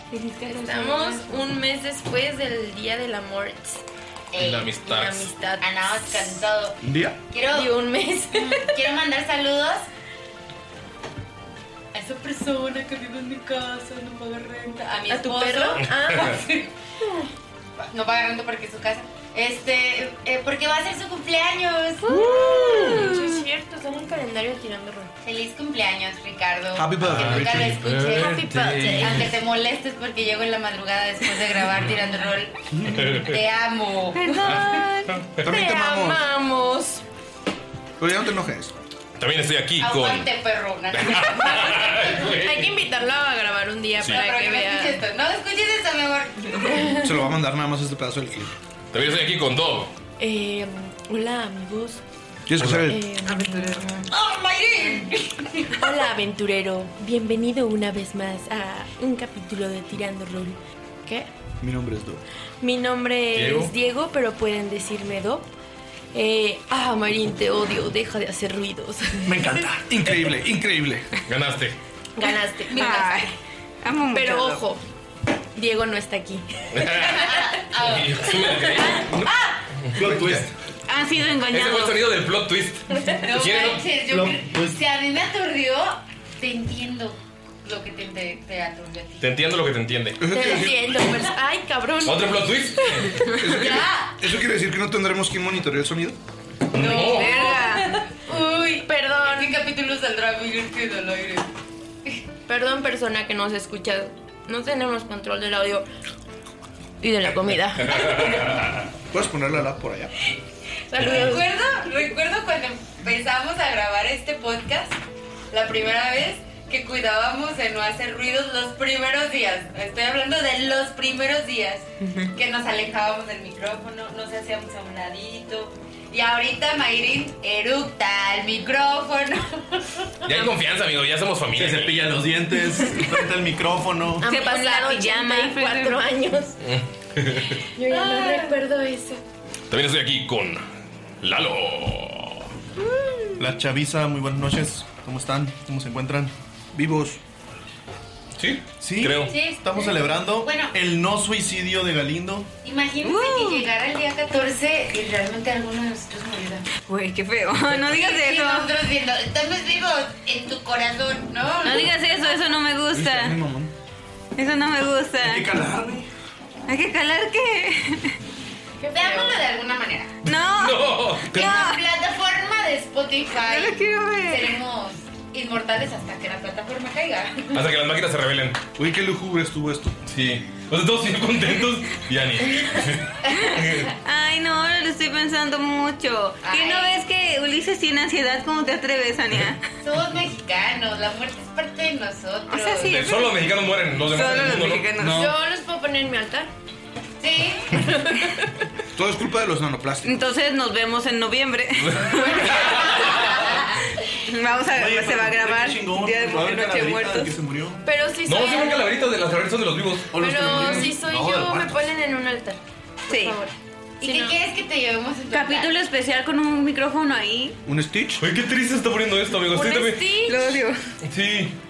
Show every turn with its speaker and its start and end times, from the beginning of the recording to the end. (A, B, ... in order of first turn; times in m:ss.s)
0:00.1-0:01.4 A
0:00.5-0:03.8 B
0:04.3-0:04.8 C
0:04.4-0:05.3 D
0:04.8-0:05.7 B
0:05.6-0:07.7 C
0:06.8-0:07.2 E
0:07.5-0:08.5 B
0:08.3-0:09.9 C
0:12.0-0:16.7 C
0:15.1-0:16.4 B
0:15.8-0:16.4 D
0:17.8-0:22.4 C
0:22.1-0:25.1 B
0:25.2-0:34.8 C
0:26.8-0:27.8 E
0:27.0-0:29.3 D
0:28.1-0:29.3 B
0:32.9-0:33.4 D
0:34.2-0:35.1 A
0:35.4-0:36.2 E
0:35.4-0:37.0 B
0:38.0-0:38.7 E
0:39.2-0:40.3 D
0:39.8-0:42.2 C
0:40.9-0:42.7 D
0:42.2-0:45.0 B
0:44.1-0:46.9 C
0:46.7-0:47.1 B
0:47.0-0:48.5 E
0:48.9-0:49.9 D
0:50.2-0:52.0 B
0:52.5-0:53.0 E
0:52.6-0:52.9 D
0:52.8-0:54.1 B
0:53.2-0:53.9 A
0:54.1-0:55.7 C
0:55.8-1:01.3 B
1:01.6-1:02.2 E
1:02.6-1:05.5 B
1:03.3-1:03.7 D
1:06.1-1:09.6 B
1:09.3-1:11.1 E
1:11.3-1:11.8 D
1:12.2-1:13.3 B
1:12.2-1:14.6 A
1:12.8-1:13.1 C
1:14.1-1:14.8 B
1:15.6-1:16.4 B
1:16.7-1:19.1 D
1:17.0-1:19.4 C
1:20.0-1:20.5 F
1:20.0-1:20.5 E
1:20.9-1:22.1 A
1:21.5-1:23.8 D
1:23.2-1:29.3 C
1:24.1-1:24.8 F
1:29.2-1:30.2 D
1:30.2-1:31.1 E
1:30.3-1:32.5 B
1:32.0-1:33.2 D
1:33.4-1:36.2 E
1:33.5-1:33.9 B
1:33.6-1:34.1 C
1:36.7-1:37.5 D
1:36.7-1:41.5 C
1:36.9-1:38.0 A
1:38.8-1:39.6 B
1:42.5-1:45.9 B
1:47.0-1:48.7 B
1:47.8-1:48.8 D
1:49.1-1:50.1 E
1:50.9-1:51.5 B
1:51.0-1:55.0 C
1:55.5-2:10.4 C
2:10.3-2:12.2 D
2:11.6-2:14.2 F
2:14.2-2:16.6 B
2:14.2-2:16.0 A
2:16.6-2:17.6 D
2:17.8-2:19.2 B
2:17.9-2:18.4 C
2:18.1-2:18.4 A
2:19.7-2:20.6 D
2:21.2-2:22.5 D
2:23.4-2:26.3 F
2:26.7-2:27.2 E
2:28.4-2:29.3 D
2:28.8-2:32.5 F
2:29.3-2:30.7 C
2:32.6-2:36.7 C
2:33.0-2:33.7 A
2:36.8-2:38.7 A
2:37.7-2:42.1 C
2:41.6-2:43.4 A
2:42.9-2:43.7 E
2:44.4-2:45.5 A
2:45.2-2:46.1 F
2:46.7-2:48.2 A
2:48.8-2:49.4 B
2:48.9-2:50.2 C
2:50.2-2:51.8 A
2:50.6-2:51.6 D
2:51.3-2:57.7 C
2:53.4-2:54.6 A
2:57.5-2:58.6 D
2:58.8-3:00.0 E
3:00.1-3:03.9 D
3:03.4-3:09.6 A
3:06.4-3:07.0 C
3:09.8-3:13.1 C
3:12.5-3:13.4 A
3:12.9-3:14.9 D
3:14.0-3:15.2 A
3:15.0-3:15.3 E
3:15.0-3:16.5 B
3:17.2-3:17.7 C
3:17.8-3:18.5 B
3:19.0-3:20.2 E
3:20.0-3:23.2 A
3:22.3-3:23.1 C
3:22.8-3:23.2 D
3:24.1-3:27.4 A
3:24.7-3:27.8 F
3:27.8-3:28.9 B
3:28.3-3:30.2 D
3:30.1-3:31.9 F
3:30.2-3:34.4 B
3:33.1-3:33.4 A
3:34.0-3:35.7 C
3:35.3-3:37.6 A
3:37.7-3:38.2 E
3:38.2-3:40.1 D
3:39.5-3:40.6 B
3:40.2-3:40.8 A
3:41.0-3:41.6 D